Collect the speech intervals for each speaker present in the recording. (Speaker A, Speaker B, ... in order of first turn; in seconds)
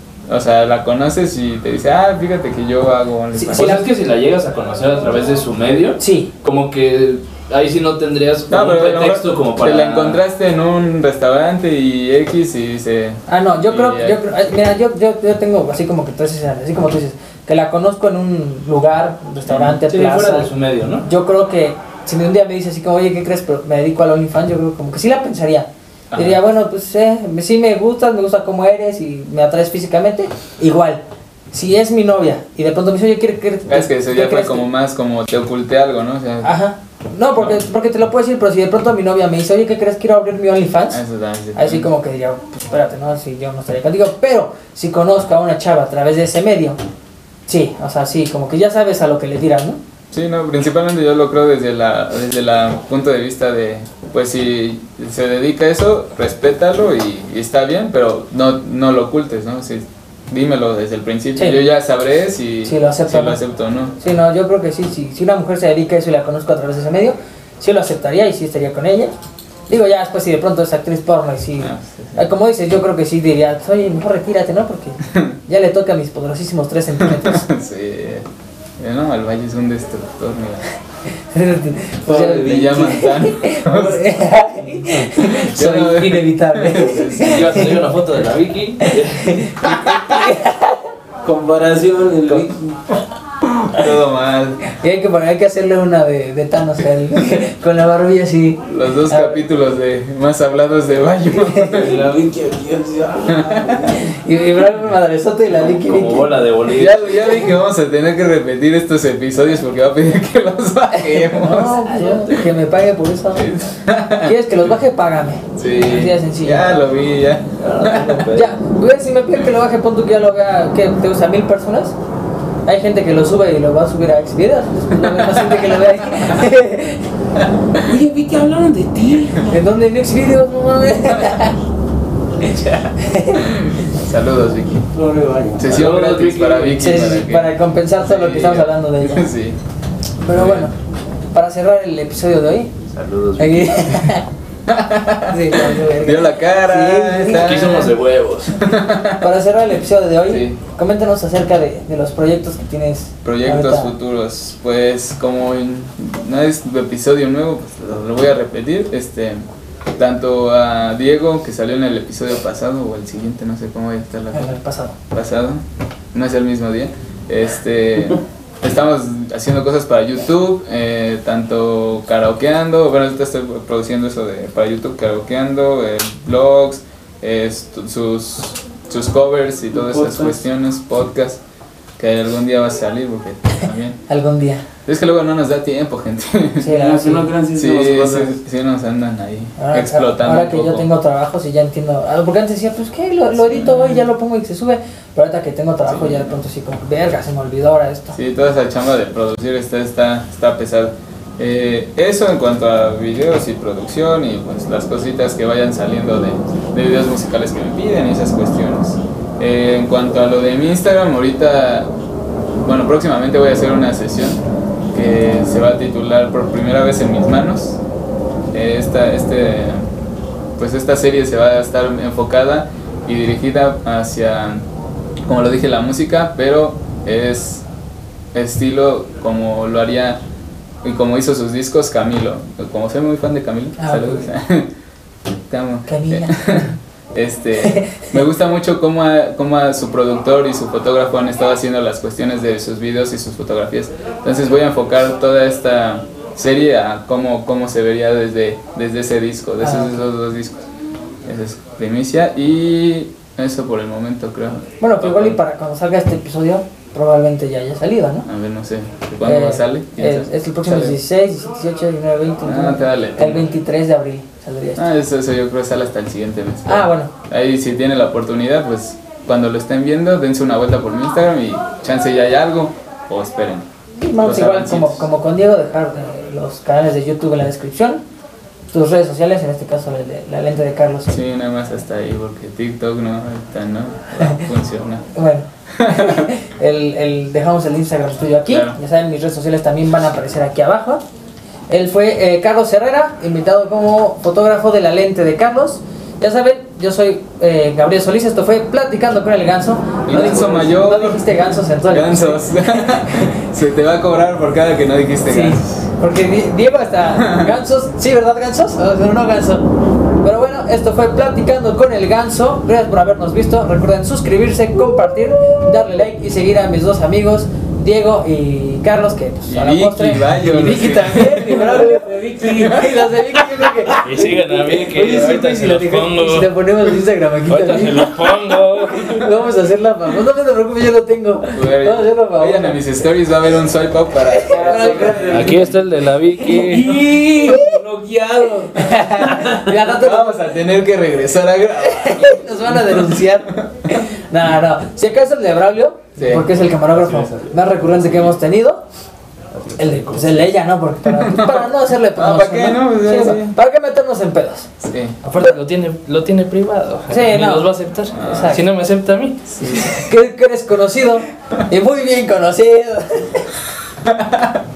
Speaker A: 0.3-3.8, 8.5-14.2, 19.5-19.8, 26.1-26.4, 33.7-36.5, 37.4-37.6, 40.9-41.9, 50.1-64.0, 71.6-72.3, 75.1-75.4, 77.0-78.3, 78.8-80.7, 82.4-84.1, 85.2-87.8, 93.4-94.6, 98.7-102.0, 103.3-103.7, 106.7-112.4, 113.3-114.7, 115.6-118.2, 125.0-125.6, 132.6-134.9, 135.6-139.6, 140.3-140.7, 144.7-147.9, 148.6-149.3, 150.3-150.6, 153.2-159.4, 160.0-164.6, 165.1-181.4, 182.0-184.0, 184.9-186.8, 187.5-190.9, 193.4-194.1, 195.9-196.4, 198.1-211.9, 212.6-217.8, 218.5-219.9, 220.6-224.7, 225.3-227.6, 228.3-230.2, 230.8-234.7, 235.5-250.7, 251.2-255.4, 258.2-261.0, 262.4-263.5, 264.8-273.7, 274.2-275.1, 281.1-285.1, 285.7-286.3, 288.5-288.8, 300.1-305.9, 307.2-307.5, 319.5-323.2, 331.6-335.8, 339.8-343.7, 346.2-346.6, 351.1-353.6, 354.8-355.2, 358.1-358.6, 359.5-360.1, 364.1-364.6
Speaker B: 3.3-3.8, 6.0-6.3, 13.3-20.5, 21.0-34.7, 36.4-41.0, 41.5-46.8, 47.5-49.8, 62.6-63.4, 64.0-69.2, 69.7-77.5, 81.3-87.8, 88.8-90.8, 94.6-99.4, 101.3-101.8, 103.9-106.3, 110.9-113.5, 114.2-116.8, 117.8-122.0, 122.7-127.1, 129.5-131.6, 132.4-133.9, 136.8-139.3, 140.2-140.7, 141.3-142.7, 143.4-144.3, 145.3-147.9, 149.2-153.9, 164.3-164.9, 184.1-184.7, 186.6-187.3, 189.6-198.2, 233.8-234.3, 235.9-236.7, 237.6-238.1, 249.6-250.0, 254.8-258.3, 259.2-264.9, 266.7-267.1, 274.0-278.0, 278.7-281.2, 284.2-284.4, 285.1-291.0, 291.7-303.3, 305.3-309.7, 310.2-332.8, 334.2-335.5, 337.4-337.8, 338.7-340.5, 341.8-348.8, 349.8-354.7, 355.2-355.6, 357.1-358.7, 359.6-363.5
Speaker C: 3.5-10.2, 19.8-21.1, 87.2-89.9, 105.5-107.2, 117.6-118.5, 135.6-136.8, 142.9-144.2, 147.3-148.7, 324.0-326.5, 327.5-329.3, 335.2-337.2, 346.6-348.3, 349.5-350.5, 355.4-359.4
Speaker D: 82.1-83.1, 91.2-92.8, 101.7-104.1, 127.8-129.6, 134.9-135.7, 179.7-180.4, 186.6-188.4, 334.5-335.7, 336.4-339.3